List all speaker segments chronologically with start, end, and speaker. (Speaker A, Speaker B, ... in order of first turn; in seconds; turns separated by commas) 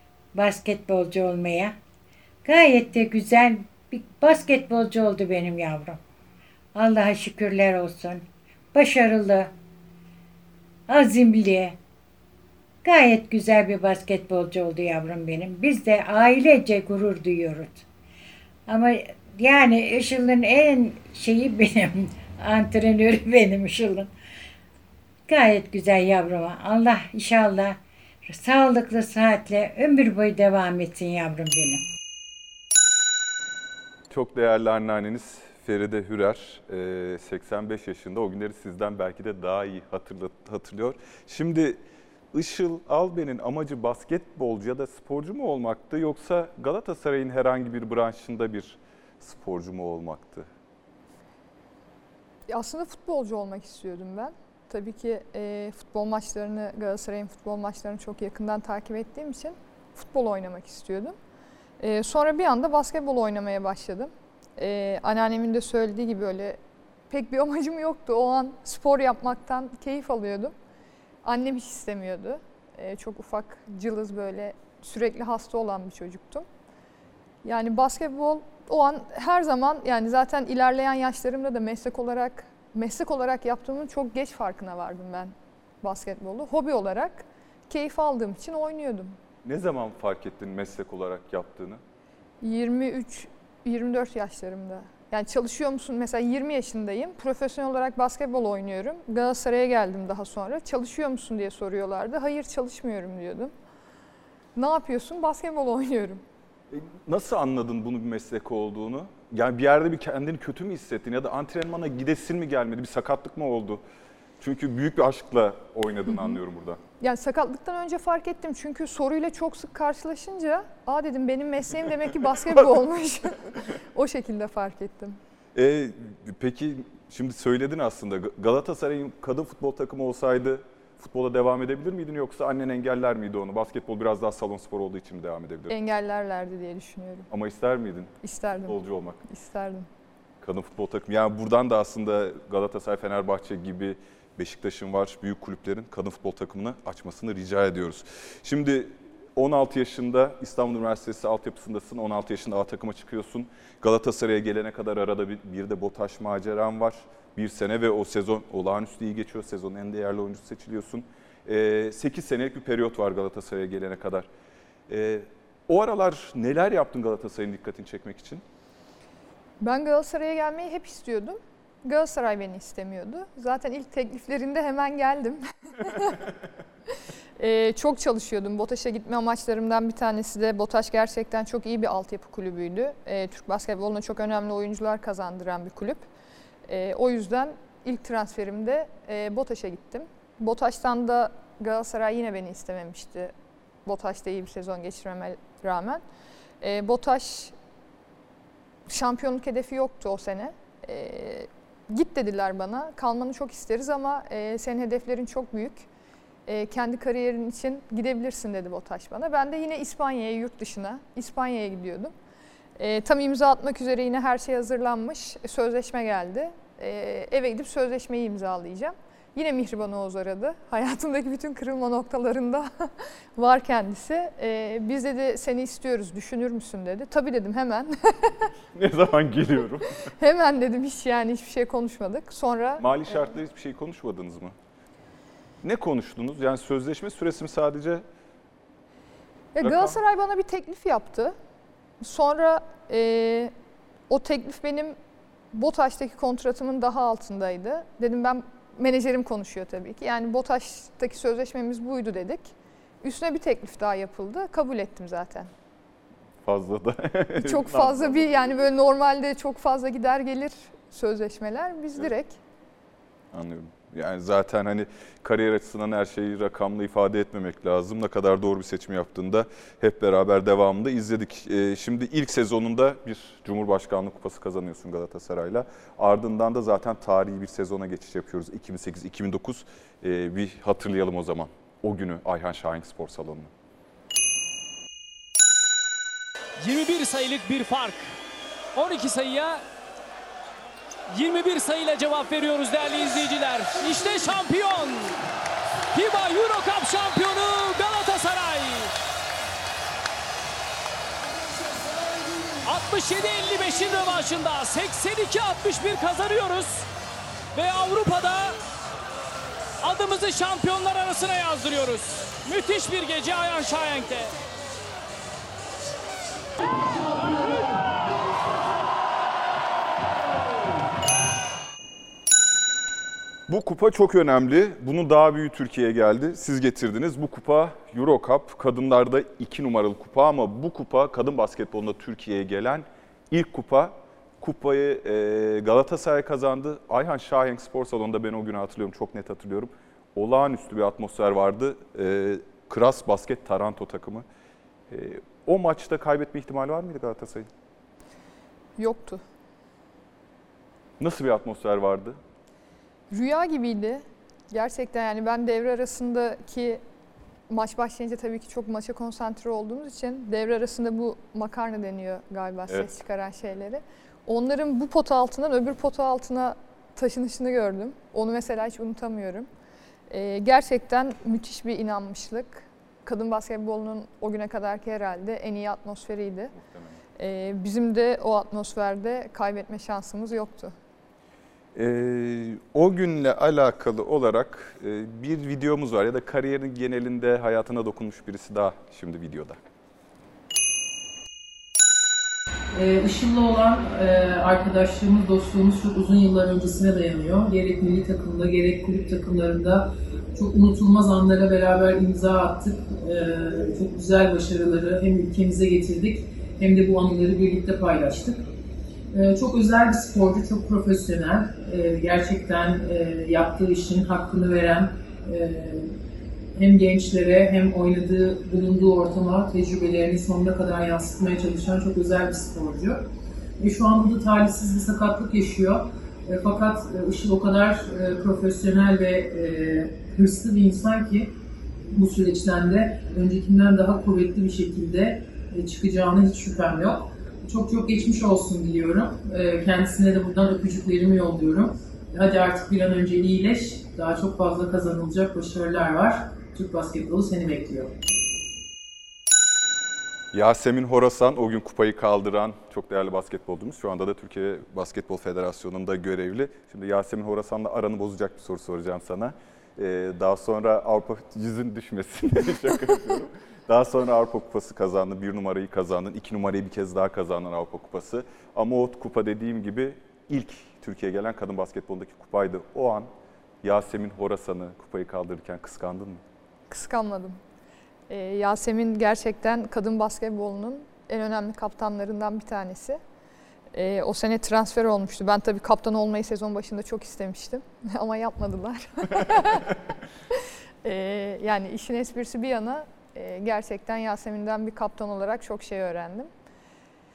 Speaker A: 0.3-1.7, Speaker A: 2.4-6.0, Speaker A: 6.7-9.5, Speaker A: 10.9-11.8, Speaker A: 12.8-17.8, Speaker A: 18.7-24.1, Speaker A: 25.3-31.8, Speaker B: 34.1-41.8, Speaker B: 42.3-50.5, Speaker C: 52.5-61.1, Speaker C: 61.8-66.6, Speaker C: 67.1-70.5, Speaker C: 71.2-76.5, Speaker C: 77.4-89.2, Speaker B: 89.4-91.8, Speaker C: 92.4-103.5, Speaker C: 104.5-106.2, Speaker B: 106.7-113.8, Speaker B: 114.4-116.8, Speaker C: 116.1-116.4, Speaker C: 117.0-125.2, Speaker B: 125.5-135.7, Speaker C: 135.7-137.3, Speaker B: 137.3-138.1, Speaker C: 138.2-138.8, Speaker B: 138.7-139.2, Speaker C: 139.3-139.9, Speaker B: 140.4-164.3, Speaker B: 164.9-168.4, Speaker C: 169.6-176.2, Speaker C: 177.4-186.0, Speaker C: 186.7-193.3, Speaker C: 193.8-196.0, Speaker C: 196.6-197.5, Speaker C: 198.9-205.9, Speaker C: 206.5-212.1, Speaker C: 212.8-228.4, Speaker B: 228.7-230.0, Speaker C: 230.2-233.3, Speaker B: 232.8-234.5, Speaker B: 235.6-238.0, Speaker C: 239.5-241.3, Speaker B: 239.6-240.0, Speaker C: 242.0-243.5, Speaker C: 244.1-244.9, Speaker C: 245.5-255.5, Speaker B: 256.4-258.3, Speaker C: 257.4-262.4, Speaker B: 263.3-283.5, Speaker D: 286.6-288.1, Speaker D: 288.7-289.6, Speaker D: 291.1-295.2, Speaker D: 295.9-298.9, Speaker D: 302.6-306.9, Speaker D: 307.5-308.6, Speaker D: 309.8-314.3, Speaker B: 323.5-344.2, Speaker B: 344.9-347.5, Speaker C: 348.8-349.2, Speaker B: 351.0-352.2, Speaker C: 353.1-356.8, Speaker C: 357.5-369.5, Speaker C: 370.1-376.5, Speaker B: 376.5-377.0, Speaker C: 377.2-380.7, Speaker B: 381.7-389.6, Speaker E: 392.7-408.4, Speaker E: 409.1-416.0, Speaker E: 416.5-423.1, Speaker E: 423.6-431.3, Speaker E: 431.9-447.9, Speaker B: 450.3-473.1, Speaker B: 473.6-476.2, Speaker C: 476.7-477.4, Speaker C: 478.1-483.0, Speaker C: 483.7-489.7, Speaker C: 490.8-496.3